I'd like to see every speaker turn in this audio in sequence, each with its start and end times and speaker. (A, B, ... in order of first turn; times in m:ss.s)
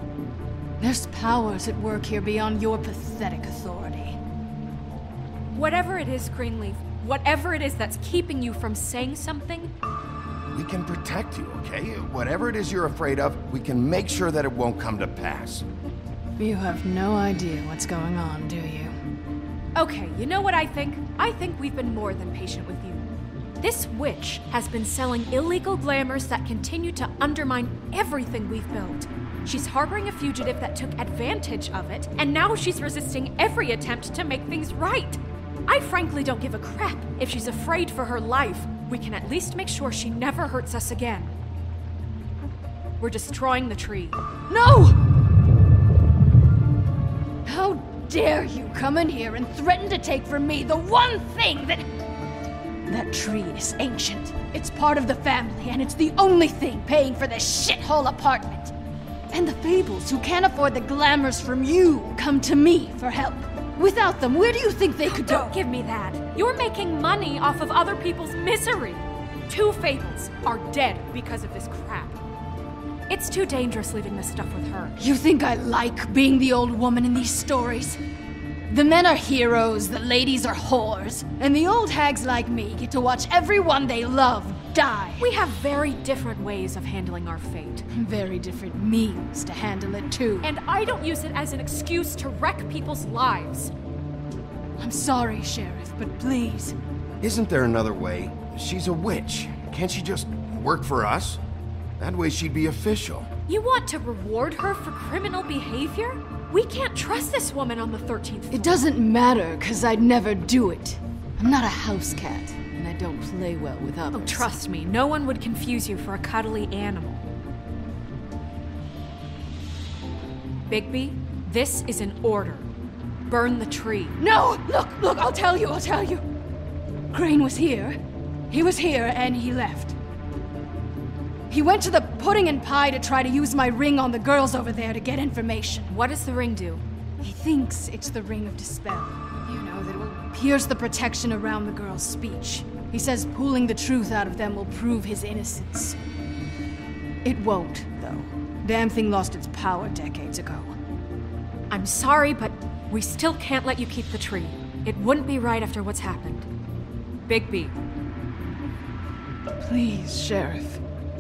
0:00.8-0:04.2 A
0:05.5-0:09.7 B
0:10.5-0:15.6 C
0:16.4-0:18.9 A
0:19.7-0:23.0 B
0:23.6-0:41.3 B
0:43.0-0:44.3 B
0:44.5-0:45.0 A
0:47.4-0:51.9 A
0:52.9-0:58.7 A
0:59.3-1:05.5 A
1:05.1-1:12.2 B
1:13.1-1:15.0 B
1:15.0-1:18.0 A
1:18.7-1:25.3 A
1:25.2-1:27.8 B
1:27.9-1:30.5 A
1:30.4-1:33.7 B
1:34.8-1:36.7 A
1:37.2-1:41.4 C
1:42.0-1:43.3 C
1:43.5-1:48.8 B
1:48.5-1:54.5 A
1:54.1-1:57.2 B
2:00.7-2:02.7 B
2:03.3-2:04.2 B
2:04.2-2:06.2 A
2:07.1-2:08.0 A
2:08.5-2:10.0 A
2:11.5-2:15.9 A
2:15.9-2:16.8 B
2:17.2-2:26.0 A
2:27.2-2:30.7 A
2:31.7-2:36.5 B
2:37.3-2:37.8 B
2:39.6-2:40.8 A